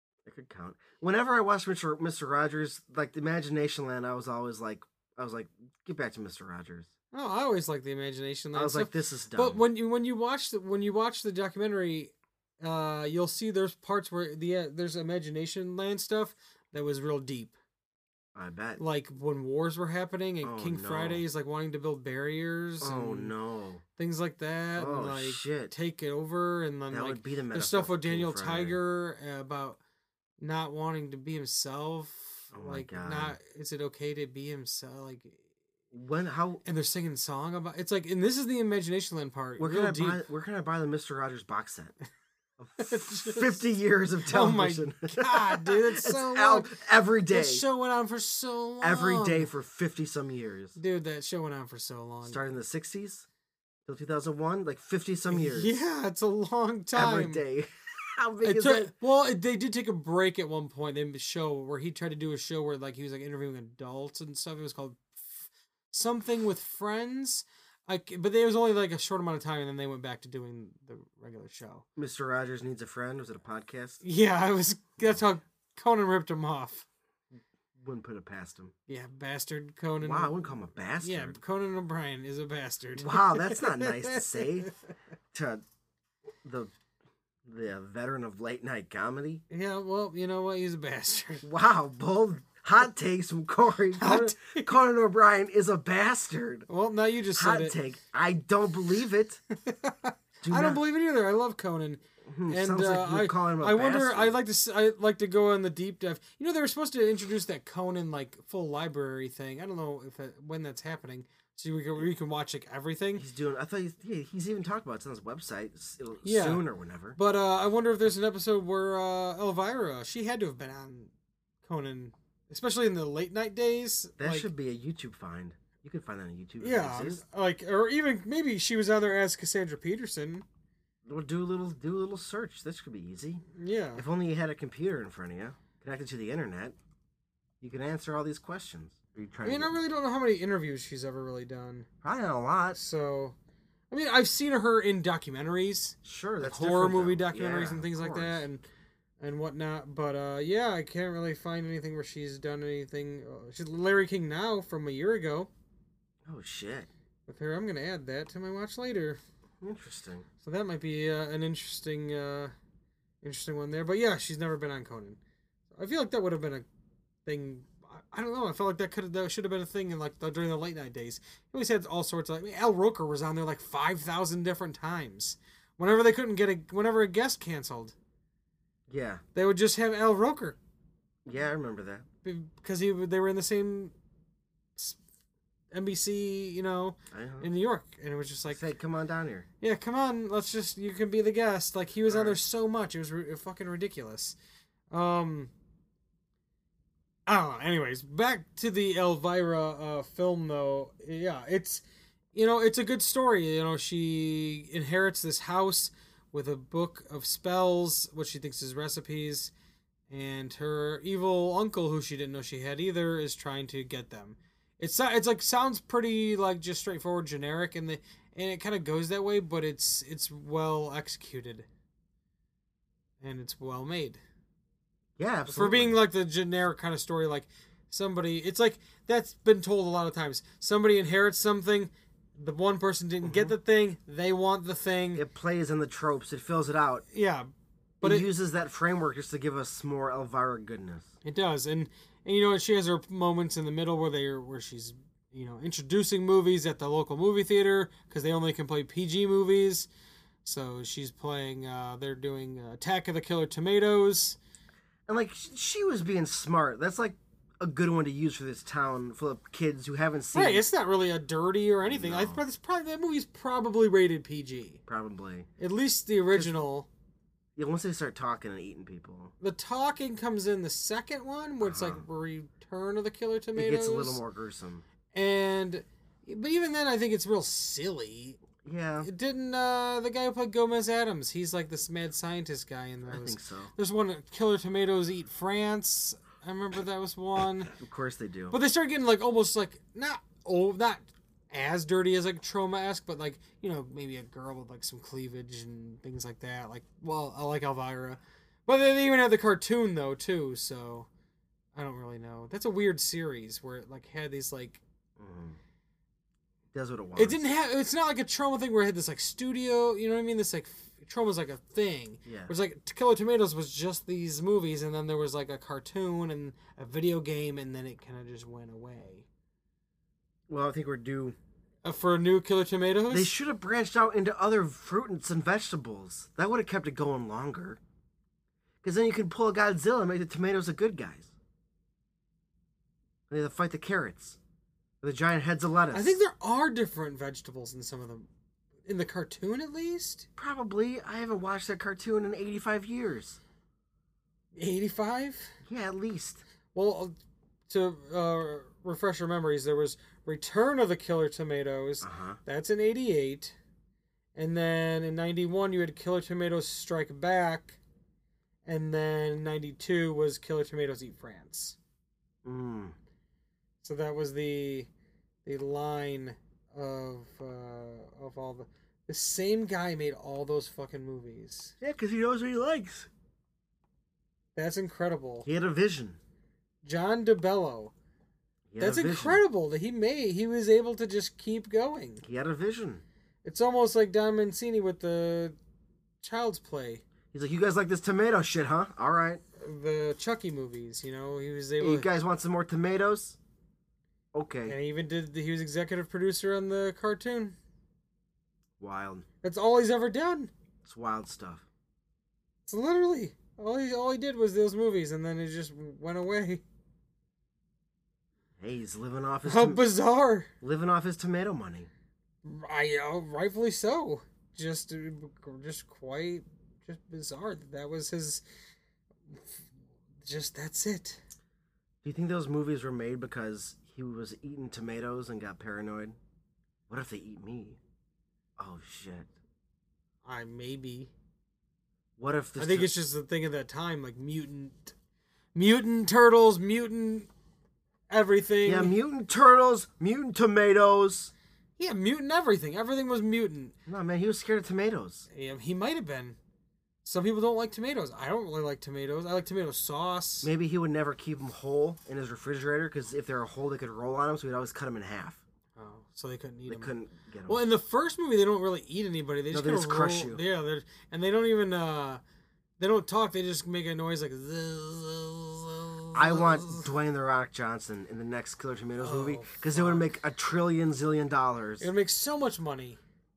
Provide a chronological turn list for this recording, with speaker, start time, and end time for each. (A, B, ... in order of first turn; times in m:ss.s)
0:00.2-0:06.9 A
0:07.1-0:17.5 B
0:08.5-0:09.6 A
0:18.4-0:18.8 A
0:18.8-0:23.3 B
0:20.4-0:21.2 A
0:22.8-0:23.8 A
0:24.0-0:29.8 B
0:24.8-0:25.7 A
0:26.9-0:28.8 A
0:30.4-0:35.4 B
0:32.5-0:33.4 A
0:35.9-0:36.6 A
0:36.6-0:40.2 B
0:39.6-0:41.9 A
0:42.6-0:47.6 A
0:42.8-0:43.6 B
0:44.3-0:46.8 B
0:47.3-0:49.5 B
0:48.8-0:50.8 A
0:50.8-0:52.4 B
0:52.2-0:53.3 A
0:53.9-0:55.8 A
0:55.3-0:57.4 B
0:56.9-0:58.9 A
0:58.4-1:11.8 B
1:12.0-1:14.0 A
1:14.0-1:16.8 B
1:17.8-1:18.7 A
1:18.9-1:20.4 B
1:20.0-1:21.4 A
1:21.0-1:24.7 B
1:23.0-1:24.7 A
1:25.3-1:25.6 A
1:26.4-1:26.7 A
1:27.4-1:29.4 A
1:29.5-1:31.4 B
1:31.4-1:36.7 A
1:34.0-1:34.7 B
1:36.7-1:37.8 B
1:37.4-1:39.4 A
1:39.6-1:53.2 B
1:40.4-1:40.8 A
1:42.3-1:44.4 A
1:53.2-1:57.2 A
1:56.2-1:56.6 B
1:57.2-2:01.1 B
2:01.6-2:04.5 B
2:04.2-2:07.2 A
2:06.6-2:10.4 B
2:11.1-2:13.4 A
2:13.6-2:14.0 B
2:14.0-2:16.8 A
2:17.6-2:19.8 A
2:19.4-2:21.9 B
2:22.0-2:22.8 A
2:22.7-2:23.4 B
2:23.9-2:28.6 B
2:26.0-2:28.4 A
2:29.2-2:35.5 B
2:36.2-2:36.9 A
2:37.3-2:39.2 B
2:39.6-2:40.3 A
2:40.4-2:42.5 B
2:43.2-2:45.2 B
2:45.7-2:46.6 B
2:47.2-2:58.0 B
2:58.9-2:59.2 A
2:59.4-3:00.6 B
3:01.2-3:02.1 A
3:02.2-3:03.9 B
3:05.7-3:08.6 B
3:07.1-3:07.5 A
3:08.5-3:09.5 A
3:09.6-3:14.4 B
3:12.1-3:12.4 A
3:14.9-3:15.5 B
3:17.3-3:29.5 B
3:30.1-3:41.7 B
3:43.2-3:44.2 B
3:45.2-3:46.0 A
3:45.5-3:55.2 B
3:53.2-3:53.6 A
3:55.2-3:57.0 A
3:57.1-3:57.5 B
3:58.0-3:58.3 B
3:58.0-4:01.1 A
4:01.2-4:09.9 B
4:10.4-4:14.4 B
4:15.1-4:20.6 A
4:20.3-4:24.8 B
4:21.8-4:22.4 A
4:24.9-4:25.5 A
4:25.6-4:26.9 B
4:27.6-4:29.3 A
4:29.4-4:34.2 B
4:31.6-4:32.0 A
4:33.6-4:34.8 A
4:35.1-4:38.4 B
4:38.6-4:39.1 A
4:39.0-4:47.7 B
4:43.1-4:43.7 A
4:47.7-4:48.6 A
4:48.5-5:01.1 B
5:01.8-5:04.8 B
5:05.2-5:05.6 A
5:06.7-5:07.4 A
5:07.2-5:19.3 B
5:12.3-5:12.5 A
5:20.5-5:21.4 A
5:21.8-5:23.3 B
5:23.1-5:27.8 A
5:28.8-5:31.3 A
5:33.3-5:34.4 A
5:35.0-5:36.2 A
5:35.9-5:38.3 B
5:38.9-5:40.3 B
5:40.4-5:43.4 A
5:44.6-5:45.6 B
5:45.6-5:46.4 A
5:46.7-5:47.2 B
5:47.7-5:53.6 B
5:52.0-5:52.4 A
5:54.4-5:57.8 B
5:58.6-6:01.8 B
6:02.4-6:03.0 A
6:03.8-6:04.9 B
6:05.4-6:11.7 B
6:11.8-6:13.1 A
6:14.6-6:15.5 B
6:15.4-6:16.2 A
6:16.8-6:17.9 B
6:18.7-6:19.4 A
6:18.8-6:22.2 B
6:22.2-6:23.0 A
6:23.4-6:25.6 B
6:26.2-6:27.0 B
6:27.3-6:29.4 A
6:29.6-6:32.1 B
6:31.8-6:33.4 A
6:34.3-6:34.8 A
6:34.7-6:37.6 B
6:38.8-6:39.3 A
6:39.4-6:40.5 B
6:40.8-6:41.6 A
6:42.7-6:46.6 B
6:48.6-6:49.8 A
6:49.4-6:50.5 B
6:50.6-6:51.9 A
6:52.4-6:58.4 B
6:59.3-6:59.6 B
7:00.2-7:01.2 B
7:02.0-7:06.2 A
7:06.9-7:07.8 A
7:08.6-7:09.3 A
7:10.2-7:11.1 B
7:12.2-7:12.9 A
7:12.6-7:14.9 B
7:15.6-7:17.3 B
7:18.1-7:19.0 B
7:18.6-7:21.3 A
7:21.8-7:23.7 B
7:23.9-7:25.3 A
7:25.3-7:26.4 B
7:27.0-7:30.5 B
7:30.4-7:35.4 A
7:35.8-7:36.9 B
7:36.7-7:37.6 A
7:37.5-7:42.2 B
7:39.5-7:40.4 A
7:42.8-7:46.9 B
7:46.2-7:51.9 A
7:49.0-7:50.1 B
7:51.8-7:53.0 B